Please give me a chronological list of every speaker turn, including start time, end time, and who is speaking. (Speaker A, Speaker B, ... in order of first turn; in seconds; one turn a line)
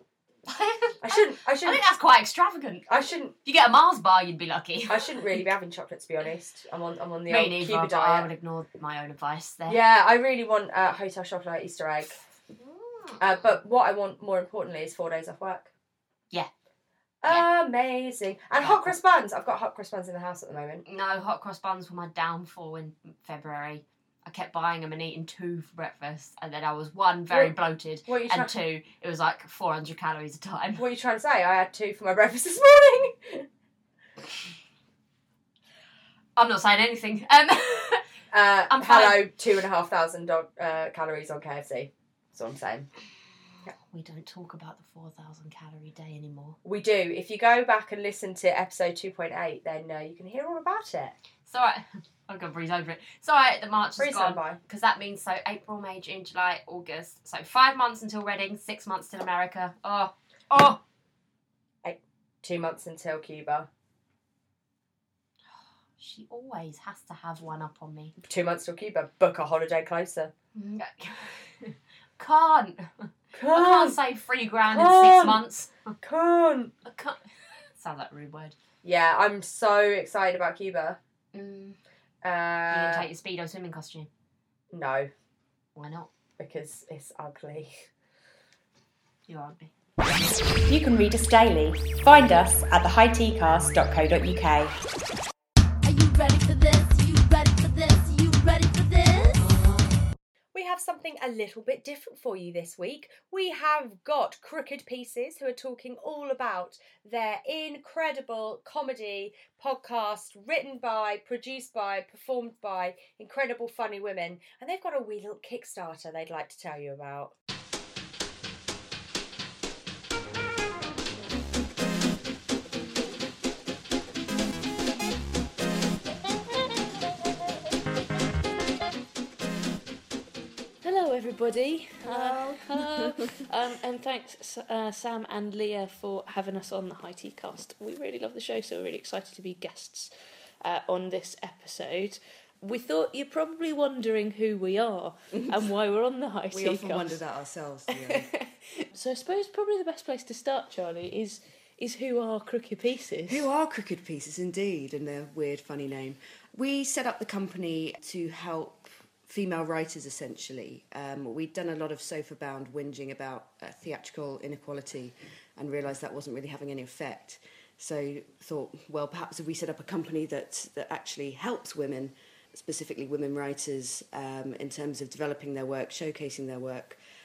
Speaker A: 0.5-2.9
Speaker B: 1.0-1.8
Speaker B: 2.9-3.3
Speaker A: 3.4-5.4
Speaker B: 4.9-8.3
Speaker A: 7.3-9.8
Speaker B: 9.7-12.2
Speaker A: 12.5-13.5
Speaker B: 13.2-15.7
Speaker B: 17.2-20.8
Speaker A: 18.6-18.9
Speaker A: 20.9-30.8
Speaker B: 28.1-28.5
Speaker B: 30.8-33.4
Speaker A: 36.4-38.0
Speaker B: 38.3-42.9
Speaker A: 38.7-39.2
Speaker A: 43.9-46.6
Speaker B: 46.6-51.1
Speaker A: 51.5-60.8
Speaker B: 54.0-54.6
Speaker B: 61.8-63.7
Speaker A: 66.0-68.1
Speaker B: 68.2-70.3
Speaker A: 70.5-75.7
Speaker B: 73.3-74.0
Speaker B: 74.6-75.4
Speaker B: 76.0-76.7
Speaker A: 76.8-77.2
Speaker A: 77.8-78.5
Speaker B: 78.8-81.0
Speaker A: 81.3-81.8
Speaker B: 82.2-83.1
Speaker A: 82.7-84.1
Speaker B: 84.7-85.1
Speaker A: 85.8-86.1
Speaker B: 86.4-87.8
Speaker A: 89.3-89.7
Speaker C: 90.7-94.7
Speaker D: 95.8-99.4
Speaker B: 100.5-117.3
Speaker E: 130.8-147.2
Speaker F: 132.0-133.2
Speaker F: 146.5-148.3
Speaker E: 147.9-148.4
Speaker E: 148.9-153.5
Speaker F: 153.3-177.0